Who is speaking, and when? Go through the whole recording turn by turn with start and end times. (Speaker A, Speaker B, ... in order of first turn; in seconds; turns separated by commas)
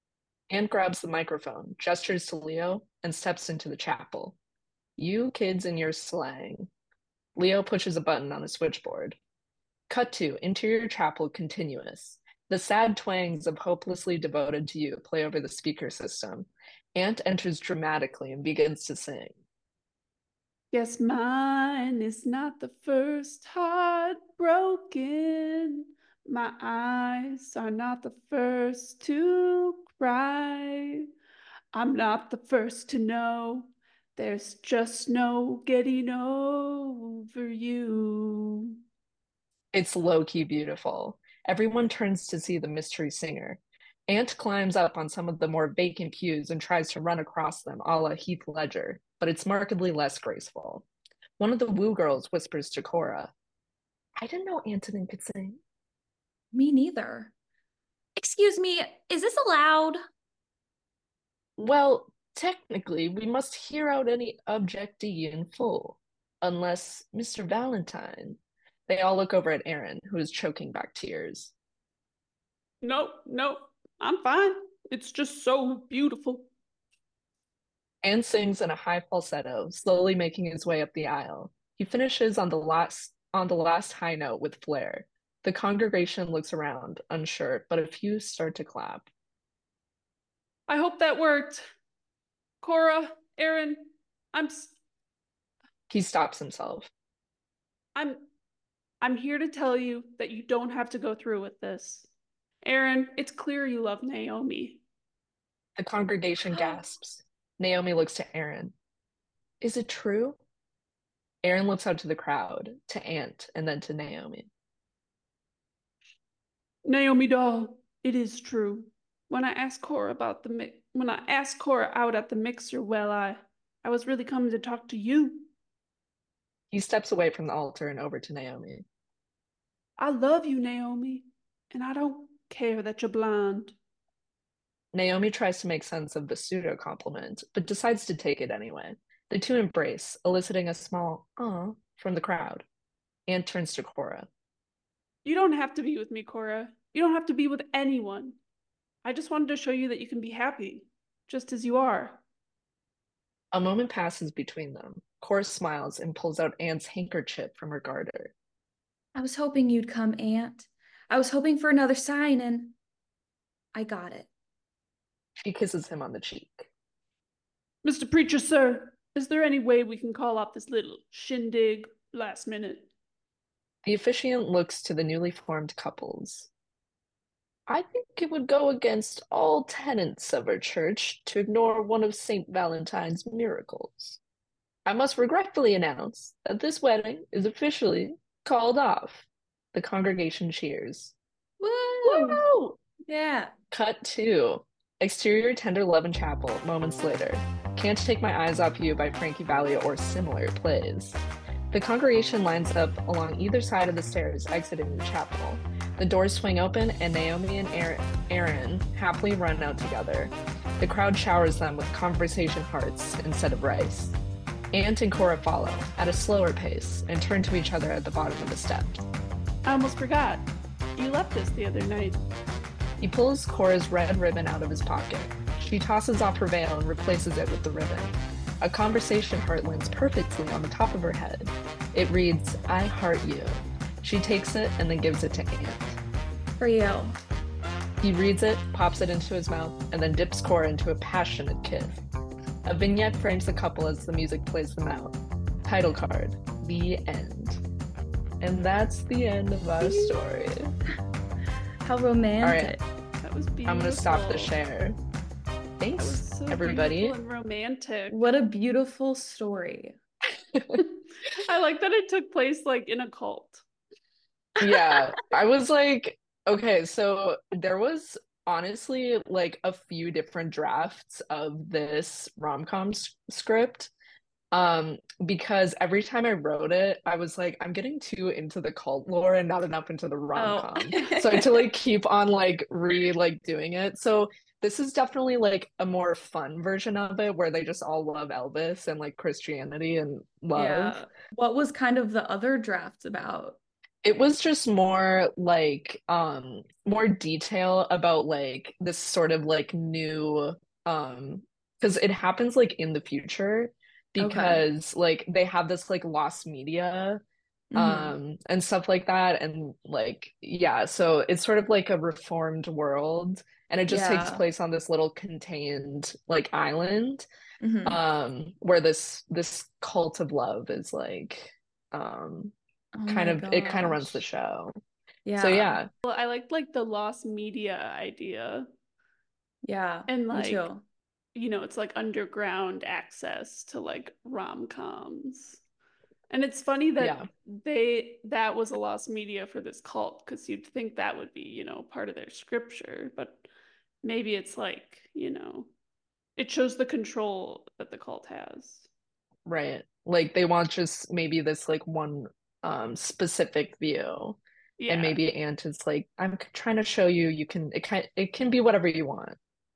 Speaker A: 0.5-4.4, Speaker A: 5.0-6.7, Speaker A: 7.4-9.2, Speaker A: 9.9-19.4, Speaker B: 20.7-31.1, Speaker B: 31.7-38.8, Speaker A: 39.7-50.9, Speaker A: 51.4-53.3, Speaker A: 54.2-55.6, Speaker C: 56.5-57.3, Speaker C: 58.2-60.0, Speaker A: 61.6-71.5, Speaker B: 72.8-76.5, Speaker A: 78.0-89.1, Speaker B: 90.7-91.6, Speaker B: 92.6-94.7, Speaker A: 95.9-96.9, Speaker B: 98.0-98.3, Speaker B: 99.0-102.1, Speaker B: 102.6-104.8, Speaker A: 105.8-108.7, Speaker A: 109.6-110.4, Speaker A: 111.4-114.5, Speaker B: 116.8-125.5, Speaker A: 126.7-128.8, Speaker B: 130.0-133.8, Speaker A: 134.9-142.7, Speaker A: 143.3-144.3, Speaker B: 145.2-148.4, Speaker B: 149.0-152.2, Speaker A: 153.5-158.3, Speaker C: 159.2-162.8, Speaker C: 163.7-164.3, Speaker A: 165.4-166.7, Speaker B: 167.8-172.9, Speaker A: 173.8-176.5, Speaker A: 177.7-184.2, Speaker A: 184.9-191.1, Speaker C: 191.6-192.5, Speaker A: 192.0-192.8, Speaker C: 193.1-193.5, Speaker A: 193.7-201.2, Speaker A: 201.7-214.2, Speaker A: 214.7-219.0, Speaker B: 219.7-222.2, Speaker A: 223.0-236.0, Speaker C: 236.6-237.2, Speaker A: 238.0-242.0, Speaker A: 242.7-247.6, Speaker A: 248.4-250.7, Speaker C: 249.8-250.2, Speaker C: 251.8-252.8, Speaker A: 252.4-252.8, Speaker B: 253.2-254.6, Speaker A: 253.7-255.0, Speaker A: 255.8-257.2, Speaker B: 256.0-258.3, Speaker C: 258.1-260.0, Speaker A: 260.5-260.8, Speaker B: 261.3-263.6, Speaker A: 264.6-273.9, Speaker C: 264.6-265.0, Speaker A: 274.5-291.1, Speaker C: 280.4-281.7, Speaker C: 290.6-293.6, Speaker A: 294.0-307.2, Speaker C: 304.2-304.6, Speaker C: 307.7-308.1, Speaker A: 307.8-317.3, Speaker C: 313.9-314.4, Speaker C: 317.6-318.0, Speaker A: 317.9-322.5, Speaker C: 322.9-324.2, Speaker A: 323.1-324.7, Speaker C: 325.2-325.8, Speaker A: 325.4-325.9, Speaker B: 326.1-328.7, Speaker C: 329.6-330.8, Speaker B: 330.1-330.7, Speaker B: 331.4-335.6, Speaker B: 336.3-343.5, Speaker A: 337.0-337.3, Speaker B: 344.0-345.7, Speaker B: 346.4-348.9, Speaker A: 349.5-359.4, Speaker B: 354.8-355.2